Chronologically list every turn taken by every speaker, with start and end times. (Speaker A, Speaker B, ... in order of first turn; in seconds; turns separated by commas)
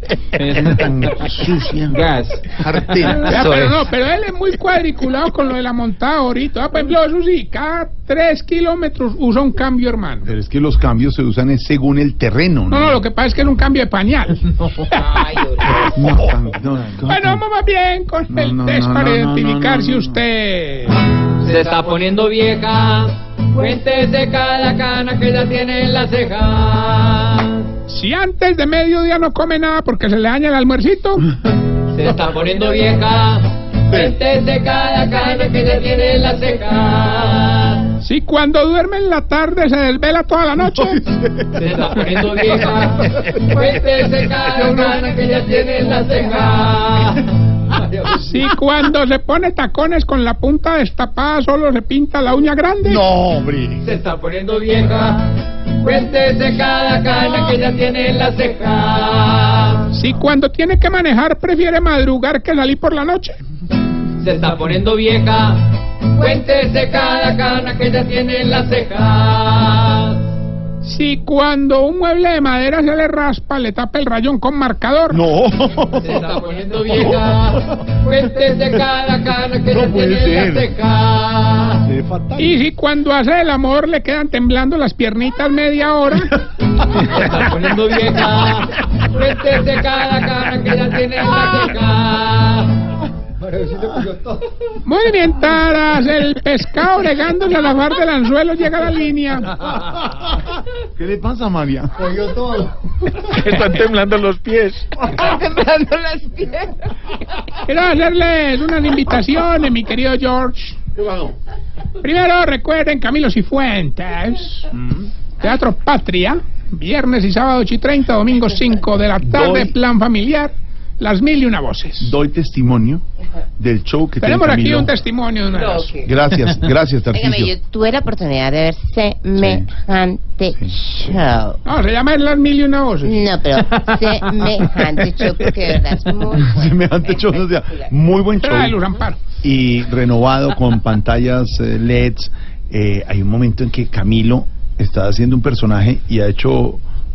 Speaker A: 0.4-1.0, Speaker B: 0.5-3.6, Speaker A: 1.9-3.8, Speaker C: 3.2-10.3, Speaker B: 10.2-13.0, Speaker C: 12.7-15.0, Speaker D: 14.9-15.9, Speaker C: 15.6-16.0, Speaker B: 15.9-17.4, Speaker C: 17.1-21.0, Speaker B: 18.3-20.2, Speaker D: 21.4-27.6, Speaker C: 27.9-31.3, Speaker D: 31.9-37.9, Speaker C: 38.0-41.1, Speaker B: 40.6-41.7, Speaker D: 41.5-48.3, Speaker C: 48.2-53.0, Speaker B: 52.9-53.9, Speaker D: 53.8-55.3, Speaker D: 55.8-59.9, Speaker C: 59.9-63.4, Speaker D: 64.2-70.2, Speaker C: 70.8-75.2, Speaker B: 75.1-76.3, Speaker D: 76.0-81.8, Speaker B: 76.9-77.9, Speaker B: 79.7-80.8, Speaker B: 81.8-82.6, Speaker C: 82.4-86.4, Speaker D: 87.0-92.7, Speaker C: 94.8-99.6, Speaker B: 100.8-102.3, Speaker A: 103.4-104.8, Speaker E: 105.2-106.6, Speaker C: 107.6-110.8, Speaker B: 111.0-111.3, Speaker C: 112.0-114.7, Speaker B: 114.7-115.1, Speaker C: 115.4-122.1, Speaker B: 119.2-119.8, Speaker B: 122.0-123.0, Speaker B: 123.6-124.9, Speaker C: 124.2-126.0, Speaker D: 125.5-126.1, Speaker B: 126.0-127.5, Speaker E: 127.1-131.6, Speaker B: 129.4-129.7, Speaker B: 130.6-131.2, Speaker C: 131.7-133.3, Speaker E: 133.0-137.9, Speaker B: 136.3-138.8, Speaker C: 138.4-139.2, Speaker B: 139.4-146.8